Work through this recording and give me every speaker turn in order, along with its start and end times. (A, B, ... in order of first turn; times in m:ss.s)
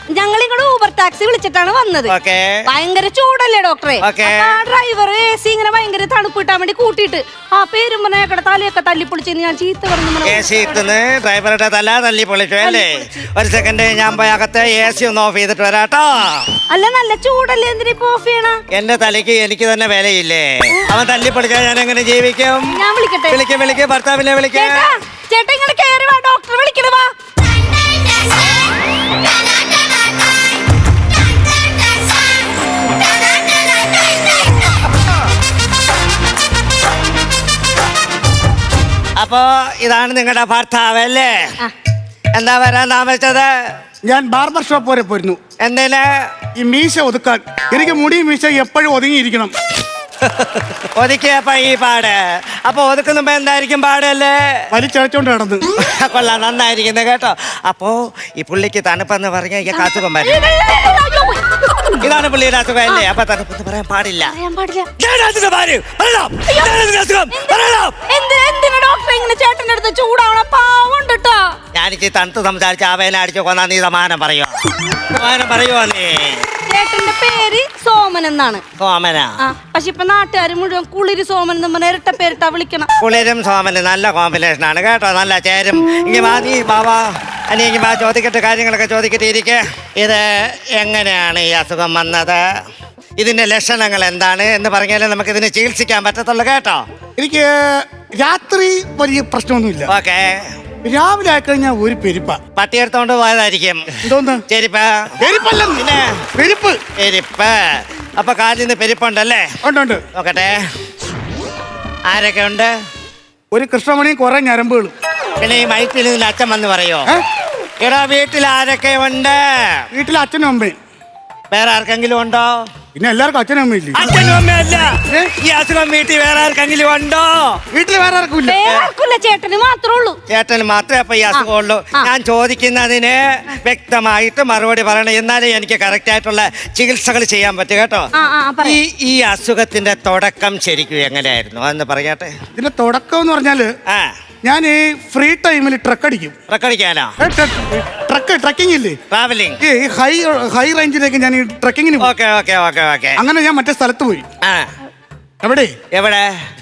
0:00.1-0:02.1 A
0:02.1-0:02.6 B
0:02.6-0:10.8 A
0:04.0-0:04.6 B
0:10.2-0:16.5 B
0:12.6-0:13.3 A
0:16.7-0:18.6 A
0:18.7-0:22.8 B
0:22.7-0:23.4 A
0:23.3-0:24.9 B
0:24.5-0:27.1 A
0:39.2-0:41.5 B
0:42.3-0:43.5 B
0:44.0-0:45.4 C
0:45.6-0:46.3 B
0:46.6-0:49.5 C
0:50.2-0:54.6 B
0:54.7-0:55.6 C
0:55.8-1:00.4 B
0:59.7-1:02.0 A
1:02.0-1:04.3 B
1:04.2-1:04.9 A
1:05.0-1:08.0 B
1:06.5-1:06.8 A
1:07.3-1:11.6 A
1:11.7-1:14.6 B
1:15.1-1:16.4 B
1:16.7-1:18.6 A
1:18.8-1:19.3 B
1:19.4-1:22.9 A
1:23.0-1:32.4 B
1:33.2-1:36.8 B
1:37.2-1:39.9 C
1:39.9-1:40.4 B
1:40.8-1:42.4 C
1:42.6-1:43.8 B
1:44.0-1:44.4 C
1:44.5-1:45.1 B
1:45.2-1:46.8 C
1:45.8-1:46.2 B
1:47.0-1:49.5 B
1:49.6-1:50.0 C
1:50.1-1:50.6 B
1:52.1-1:52.7 B
1:53.5-1:54.9 C
1:55.4-1:57.1 B
1:57.8-1:59.8 B
1:59.9-2:00.8 C
2:01.5-2:02.6 B
2:02.9-2:04.0 C
2:03.9-2:07.6 B
2:05.0-2:05.3 C
2:07.7-2:08.6 C
2:08.4-2:10.2 A
2:10.3-2:18.1 B
2:11.3-2:12.1 A
2:18.1-2:18.8 A
2:18.6-2:22.3 B
2:22.5-2:23.7 C
2:24.4-2:26.3 C
2:26.5-2:27.1 B
2:27.2-2:29.0 C
2:29.1-2:29.6 B
2:29.6-2:32.1 C
2:32.0-2:33.2 B
2:33.2-2:34.2 C
2:35.4-2:35.8 C
2:35.9-2:36.3 B